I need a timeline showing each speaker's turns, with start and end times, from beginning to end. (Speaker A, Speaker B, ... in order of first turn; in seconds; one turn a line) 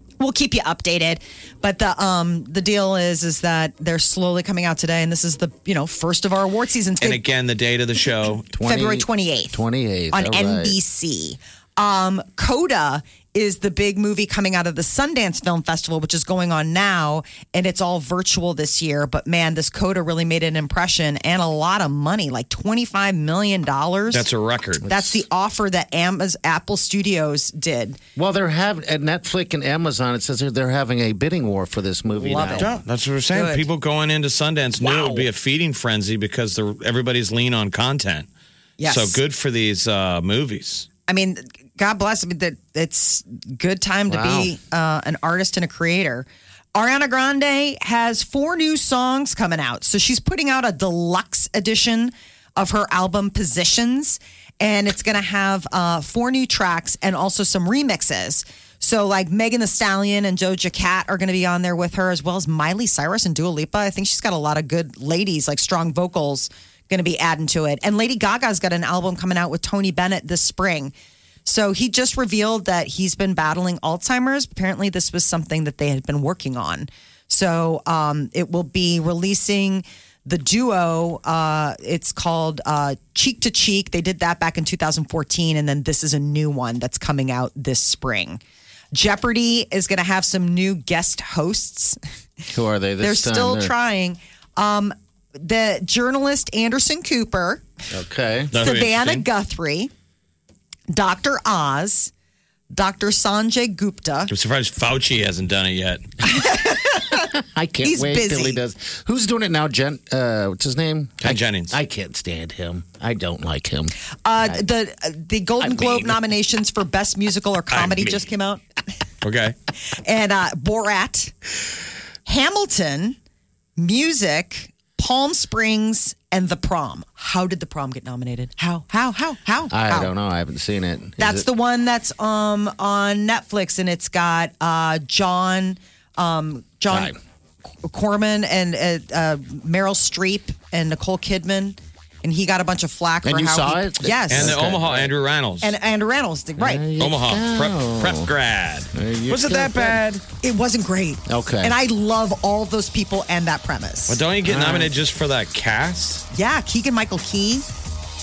Speaker A: 0.2-7.2
Speaker B: 7.0-8.5
Speaker C: 8.5-10.8
Speaker A: 8.7-9.6
Speaker A: 10.1-24.2
Speaker B: 24.1-24.9
Speaker C: 24.8-25.1
Speaker A: 24.9-28.0
Speaker C: 28.2-32.7
Speaker A: 32.2-32.8
Speaker B: 32.6-38.3
Speaker A: 33.3-33.6
Speaker C: 34.8-35.2
Speaker A: 38.8-39.2
Speaker B: 38.9-40.9
Speaker A: 41.1-70.9
Speaker C: 44.1-44.5
Speaker A: 71.5-88.4
Speaker A: 88.9-92.0
Speaker C: 92.5-93.7
Speaker A: 93.0-97.7
Speaker C: 97.9-98.5
Speaker B: 98.5-99.3
Speaker A: 98.6-99.9
Speaker A: 100.9-102.1
Speaker A: 102.7-104.3
Speaker B: 104.3-106.0
Speaker A: 106.2-107.2
Speaker C: 107.5-114.6
Speaker A: 107.8-108.6
Speaker B: 111.2-111.8
Speaker A: 114.2-118.6
Speaker C: 115.6-116.2
Speaker B: 117.7-118.2
Speaker B: 119.2-119.5
Speaker A: 120.0-121.3
Speaker A: 122.3-123.2
Speaker A: 123.8-130.1
Speaker C: 129.7-131.5
Speaker A: 131.2-137.1
Speaker C: 136.9-137.2
Speaker A: 137.8-144.6
Speaker C: 143.2-145.1
Speaker B: 144.3-145.7
Speaker A: 145.6-146.8
Speaker C: 146.6-148.3
Speaker B: 147.0-150.2
Speaker C: 148.9-150.0
Speaker A: 150.4-154.2
Speaker C: 151.3-151.8
Speaker B: 154.1-156.2
Speaker C: 154.5-154.9
Speaker A: 156.3-157.7